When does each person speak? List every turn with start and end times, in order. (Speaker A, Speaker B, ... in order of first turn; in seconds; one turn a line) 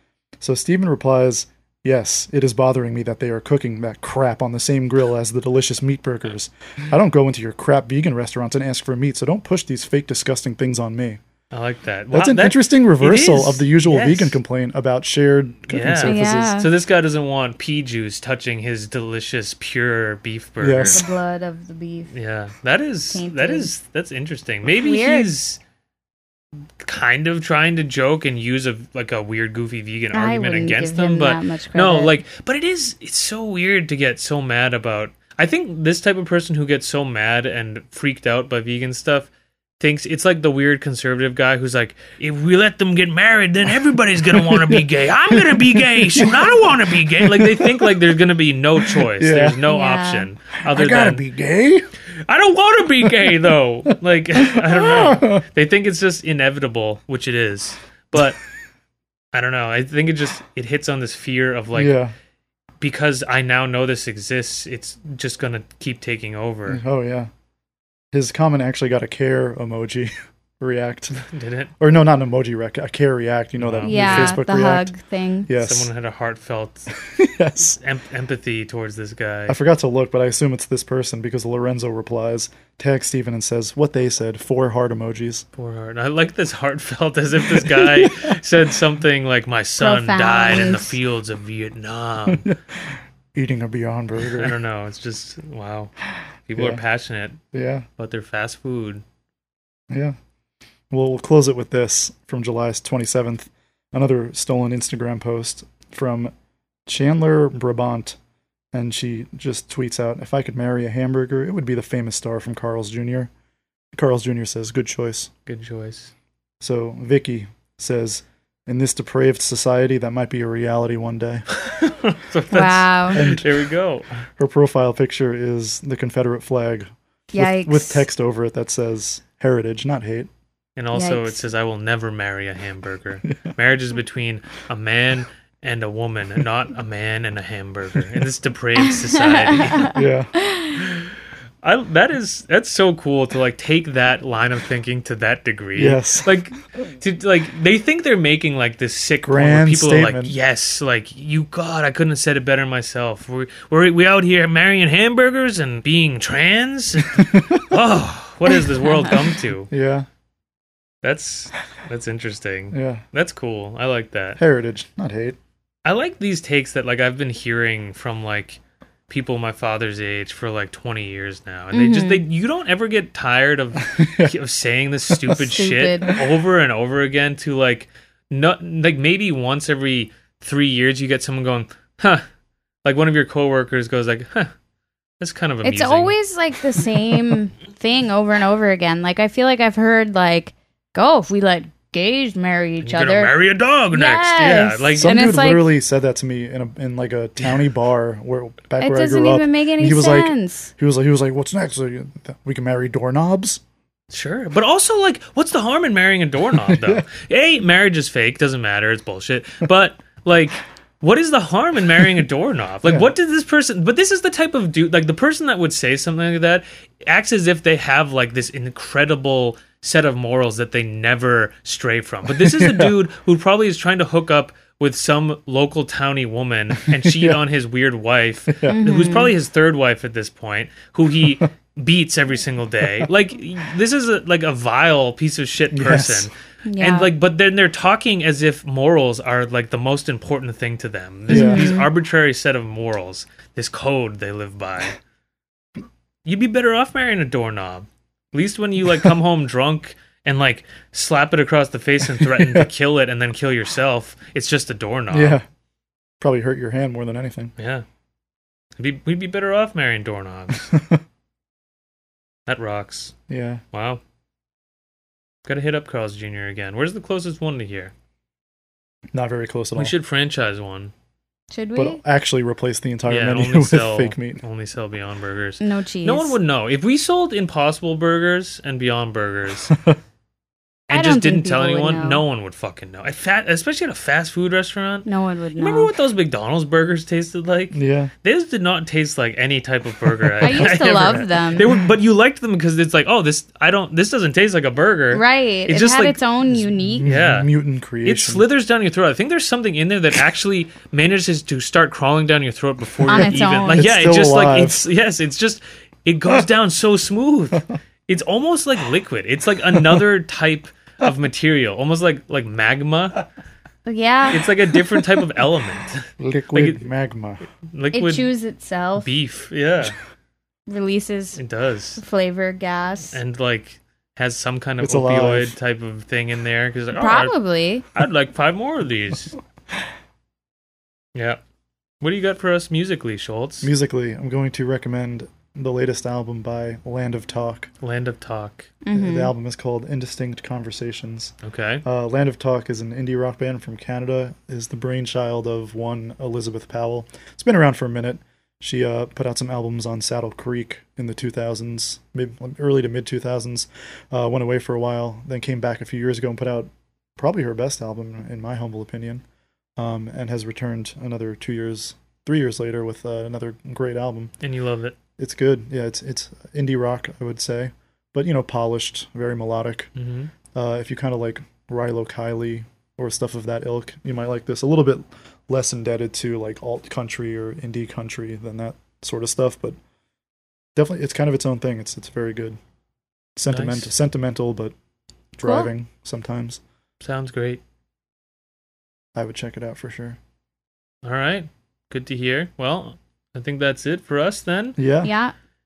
Speaker A: 0.4-11.2
Speaker B: 11.5-14.4
Speaker A: 12.1-16.6
Speaker B: 15.7-21.1
Speaker C: 16.0-16.7
Speaker A: 20.6-21.0
Speaker C: 20.9-22.1
Speaker B: 22.1-25.6
Speaker C: 23.1-23.7
Speaker C: 24.7-25.3
Speaker B: 26.8-39.3
Speaker C: 30.1-32.1
Speaker B: 39.8-51.2
Speaker A: 44.3-48.0
Speaker A: 48.8-49.6
Speaker C: 49.7-50.3
Speaker A: 50.6-51.9
Speaker B: 52.2-58.4
Speaker A: 54.4-55.4
Speaker B: 59.3-62.0
Speaker A: 61.7-62.1
Speaker B: 62.8-66.8
Speaker A: 66.7-67.3
Speaker A: 68.1-71.2
Speaker B: 71.2-71.7
Speaker A: 71.8-74.9
Speaker B: 73.6-74.4
Speaker C: 73.8-75.5
Speaker A: 75.5-75.9
Speaker B: 75.6-76.9
Speaker A: 76.9-77.8
Speaker B: 77.6-79.6
Speaker A: 79.5-85.4
Speaker B: 85.5-92.5
Speaker A: 87.6-88.3
Speaker C: 89.8-90.9
Speaker A: 92.3-94.5
Speaker B: 94.3-95.9
Speaker B: 96.5-97.4
Speaker A: 96.5-96.8
Speaker A: 97.5-97.8
Speaker B: 98.0-99.0
Speaker A: 99.9-100.1
Speaker A: 100.9-106.3
Speaker A: 106.9-108.2
Speaker A: 108.7-113.3
Speaker A: 113.9-115.3
Speaker B: 115.5-116.1
Speaker A: 116.6-121.5
Speaker B: 121.5-124.1
Speaker C: 122.5-123.3
Speaker A: 123.1-123.5
Speaker A: 124.4-130.3
Speaker C: 127.3-128.1
Speaker B: 130.8-140.0
Speaker C: 130.9-131.4
Speaker C: 138.9-140.9
Speaker A: 139.9-140.3
Speaker B: 141.6-159.7
Speaker A: 145.8-146.3
Speaker A: 149.2-150.3
Speaker A: 157.0-157.8
Speaker A: 159.7-160.1
Speaker B: 161.0-164.4
Speaker A: 162.7-163.0
Speaker A: 164.4-165.4
Speaker B: 165.8-182.2
Speaker C: 171.7-172.2
Speaker A: 173.8-174.3
Speaker A: 175.1-175.5
Speaker C: 175.5-176.2
Speaker B: 182.8-184.5
Speaker B: 185.2-186.2
Speaker C: 185.6-193.3
Speaker B: 192.8-195.3
Speaker C: 193.9-195.7
Speaker A: 194.9-203.6
Speaker C: 198.8-200.7
Speaker B: 204.1-245.0
Speaker A: 206.7-207.0
Speaker A: 222.4-222.9
Speaker A: 226.8-227.4
Speaker A: 228.5-228.7
Speaker C: 228.7-229.3
Speaker A: 235.7-236.3
Speaker C: 236.7-237.1
Speaker A: 241.3-241.7
Speaker C: 241.3-241.9
Speaker B: 246.2-255.4
Speaker A: 252.2-252.7
Speaker A: 255.1-255.4
Speaker A: 256.2-257.5
Speaker B: 257.6-257.8
Speaker B: 258.8-260.7
Speaker A: 260.7-261.0
Speaker B: 262.5-263.1
Speaker A: 263.3-263.6
Speaker B: 263.7-264.0
Speaker B: 265.4-267.9
Speaker A: 269.1-269.9
Speaker B: 269.8-270.9
Speaker C: 271.5-272.0
Speaker A: 271.7-274.4
Speaker B: 273.1-279.7
Speaker C: 275.6-276.4
Speaker B: 280.9-296.2
Speaker C: 280.9-282.2
Speaker C: 285.1-285.9
Speaker A: 287.7-288.1
Speaker A: 290.4-291.1
Speaker C: 290.4-291.7
Speaker C: 295.1-297.1
Speaker A: 296.5-298.4
Speaker B: 297.0-297.5
Speaker B: 298.0-313.2
Speaker A: 303.1-304.8
Speaker C: 303.1-303.9
Speaker C: 313.9-314.5
Speaker B: 314.3-316.8
Speaker A: 316.2-317.4
Speaker B: 317.7-318.3
Speaker C: 317.9-319.1
Speaker B: 319.0-319.9
Speaker C: 320.7-321.4
Speaker B: 321.4-322.0
Speaker C: 322.0-323.2
Speaker B: 323.1-327.3
Speaker A: 324.8-325.5
Speaker C: 326.9-327.8
Speaker B: 327.9-329.3
Speaker B: 331.1-331.4
Speaker B: 332.0-333.7
Speaker A: 333.6-337.7
Speaker B: 337.8-338.7
Speaker C: 338.8-339.3
Speaker A: 338.9-341.3
Speaker B: 341.4-341.8
Speaker A: 341.8-359.2
Speaker A: 359.8-364.3
Speaker B: 364.4-364.9
Speaker A: 365.2-369.9
Speaker B: 370.0-370.3
Speaker A: 370.5-379.8
Speaker A: 380.8-382.6
Speaker A: 383.4-384.7
Speaker B: 383.5-383.9
Speaker A: 385.3-386.6
Speaker C: 385.4-385.7
Speaker B: 387.0-387.6
Speaker A: 389.1-390.2
Speaker B: 391.0-394.8
Speaker A: 394.8-395.1
Speaker C: 395.0-395.3